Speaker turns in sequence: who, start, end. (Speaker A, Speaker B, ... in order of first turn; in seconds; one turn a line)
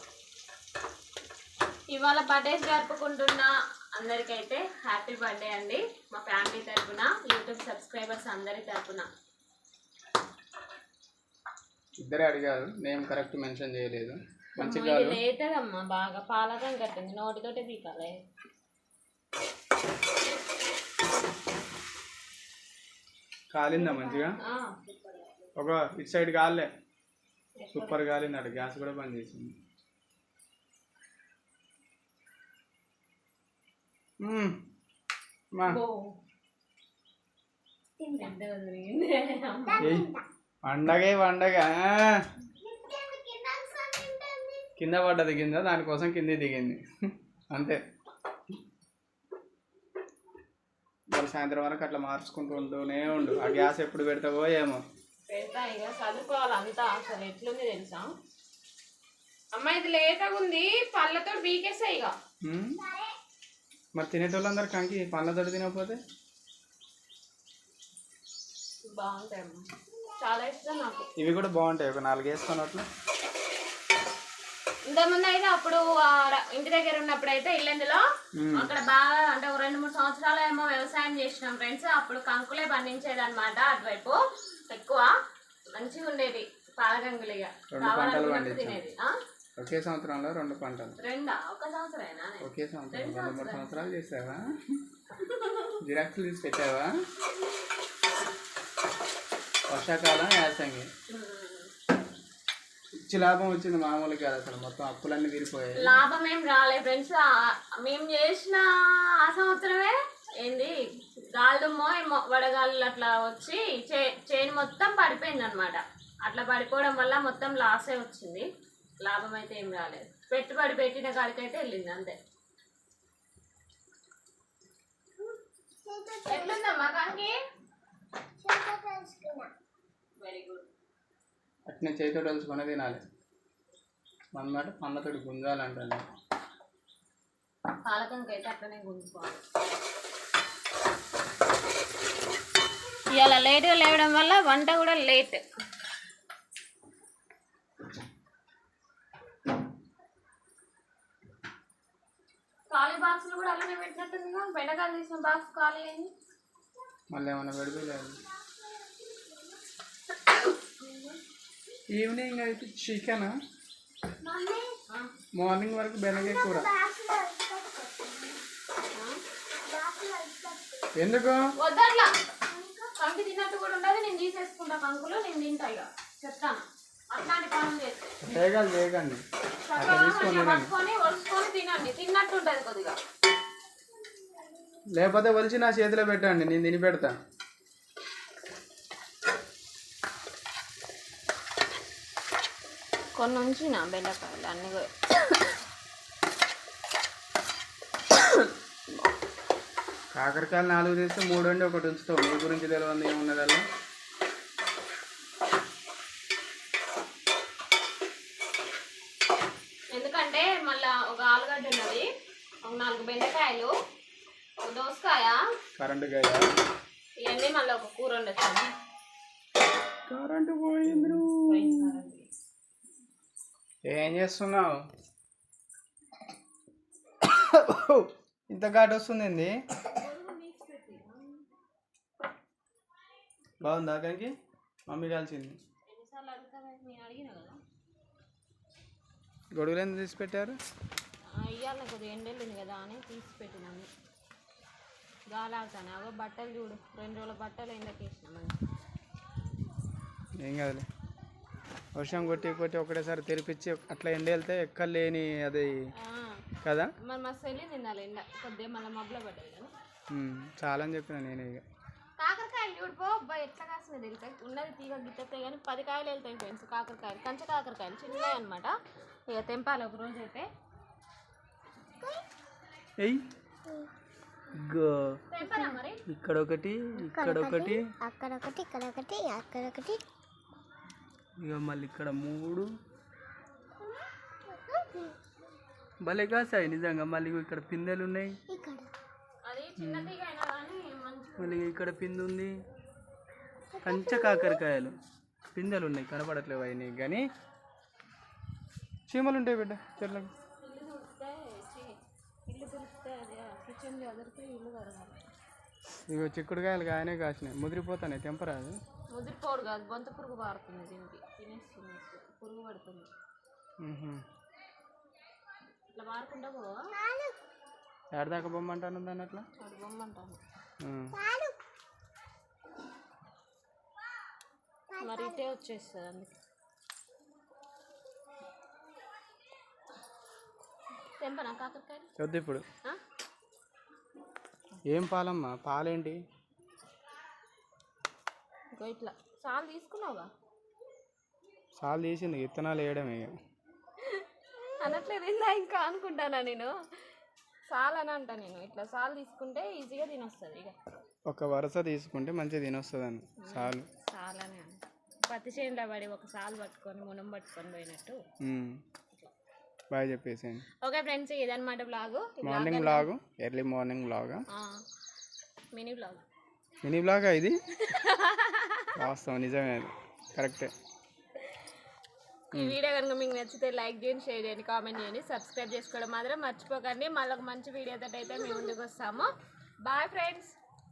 Speaker A: 1.9-9.1
Speaker B: 12.0-15.2
Speaker A: 14.6-18.2
Speaker B: 23.5-24.4
Speaker A: 23.7-25.5
Speaker B: 25.6-26.7
Speaker A: 27.6-28.0
Speaker B: 27.7-29.5
Speaker B: 34.2-34.5
Speaker A: 35.6-36.1
Speaker A: 38.0-39.9
Speaker C: 39.7-40.2
Speaker B: 39.8-40.1
Speaker B: 40.6-42.1
Speaker C: 42.6-44.7
Speaker B: 44.8-46.8
Speaker B: 47.5-47.8
Speaker B: 51.1-54.8
Speaker A: 55.3-58.1
Speaker A: 59.5-62.1
Speaker B: 62.4-62.8
Speaker B: 64.0-66.0
Speaker A: 68.9-69.6
Speaker A: 70.2-71.1
Speaker B: 71.2-72.8
Speaker A: 74.9-78.0
Speaker B: 78.3-78.7
Speaker A: 78.5-85.1
Speaker A: 85.8-89.1
Speaker B: 87.7-88.8
Speaker B: 89.6-90.9
Speaker A: 91.0-93.9
Speaker B: 92.4-94.4
Speaker A: 95.1-95.8
Speaker B: 95.8-96.9
Speaker B: 99.7-100.9
Speaker A: 101.1-101.7
Speaker B: 103.0-106.0
Speaker A: 105.8-108.7
Speaker A: 109.2-118.4
Speaker A: 119.0-122.1
Speaker C: 125.2-126.8
Speaker A: 126.3-127.3
Speaker C: 128.4-129.5
Speaker A: 130.2-130.7
Speaker B: 131.7-133.0
Speaker B: 134.3-136.0
Speaker A: 137.8-139.4
Speaker A: 143.1-145.4
Speaker A: 152.7-156.1
Speaker B: 157.1-158.2
Speaker C: 158.4-159.5
Speaker B: 161.9-163.3
Speaker C: 164.2-164.7
Speaker B: 165.4-166.7
Speaker C: 166.1-168.4
Speaker A: 168.9-169.2
Speaker C: 169.7-170.9
Speaker B: 171.0-171.5
Speaker A: 171.6-172.1
Speaker C: 172.5-172.8
Speaker A: 172.8-178.2
Speaker B: 178.2-179.2
Speaker A: 179.6-183.0
Speaker B: 179.8-180.7
Speaker B: 184.9-187.2
Speaker A: 193.2-195.5
Speaker B: 200.1-203.6
Speaker A: 209.9-212.1
Speaker A: 212.6-213.7
Speaker A: 214.6-215.4
Speaker B: 215.8-216.4
Speaker A: 217.2-218.7
Speaker B: 220.1-221.9
Speaker A: 220.8-222.3
Speaker B: 223.8-224.8
Speaker B: 227.2-229.5
Speaker A: 229.8-231.4
Speaker B: 233.6-234.3
Speaker B: 234.9-235.6
Speaker A: 235.8-237.6
Speaker B: 239.5-240.6
Speaker A: 241.3-243.9
Speaker A: 245.3-248.6
Speaker B: 250.4-250.9
Speaker B: 251.9-255.7
Speaker A: 256.0-259.7
Speaker B: 256.6-256.9
Speaker B: 260.1-261.6
Speaker A: 262.2-268.7
Speaker A: 269.3-270.5
Speaker B: 274.5-275.2
Speaker A: 275.3-276.0
Speaker C: 275.4-275.8
Speaker B: 276.1-277.9
Speaker C: 277.0-280.0
Speaker B: 281.4-282.7
Speaker C: 284.5-285.1
Speaker B: 286.0-288.4
Speaker C: 288.5-288.9
Speaker A: 289.4-291.6
Speaker B: 289.8-290.1
Speaker B: 291.4-292.5
Speaker C: 293.7-294.6
Speaker B: 293.8-294.9
Speaker B: 295.5-297.2
Speaker B: 299.1-300.3
Speaker A: 300.6-305.2
Speaker B: 306.1-308.7
Speaker A: 309.1-313.1
Speaker B: 313.8-314.2
Speaker A: 315.9-316.8
Speaker C: 316.9-317.4
Speaker B: 318.1-319.4
Speaker A: 319.6-320.4
Speaker B: 320.8-321.1
Speaker C: 321.1-321.6
Speaker C: 324.9-325.4
Speaker A: 325.0-326.4
Speaker A: 331.2-332.1
Speaker B: 332.2-332.6
Speaker B: 334.9-336.2
Speaker A: 338.7-340.3
Speaker B: 341.8-343.3
Speaker A: 344.0-346.7
Speaker A: 347.7-350.8
Speaker B: 351.3-353.9
Speaker A: 353.4-358.2
Speaker B: 358.4-358.8
Speaker B: 359.9-360.6
Speaker A: 360.8-363.1
Speaker B: 362.4-364.4
Speaker A: 364.5-364.8
Speaker A: 365.7-366.2
Speaker B: 366.8-367.6
Speaker A: 367.7-369.0
Speaker B: 368.9-370.7
Speaker A: 372.5-379.3
Speaker C: 378.4-378.7
Speaker A: 379.8-380.5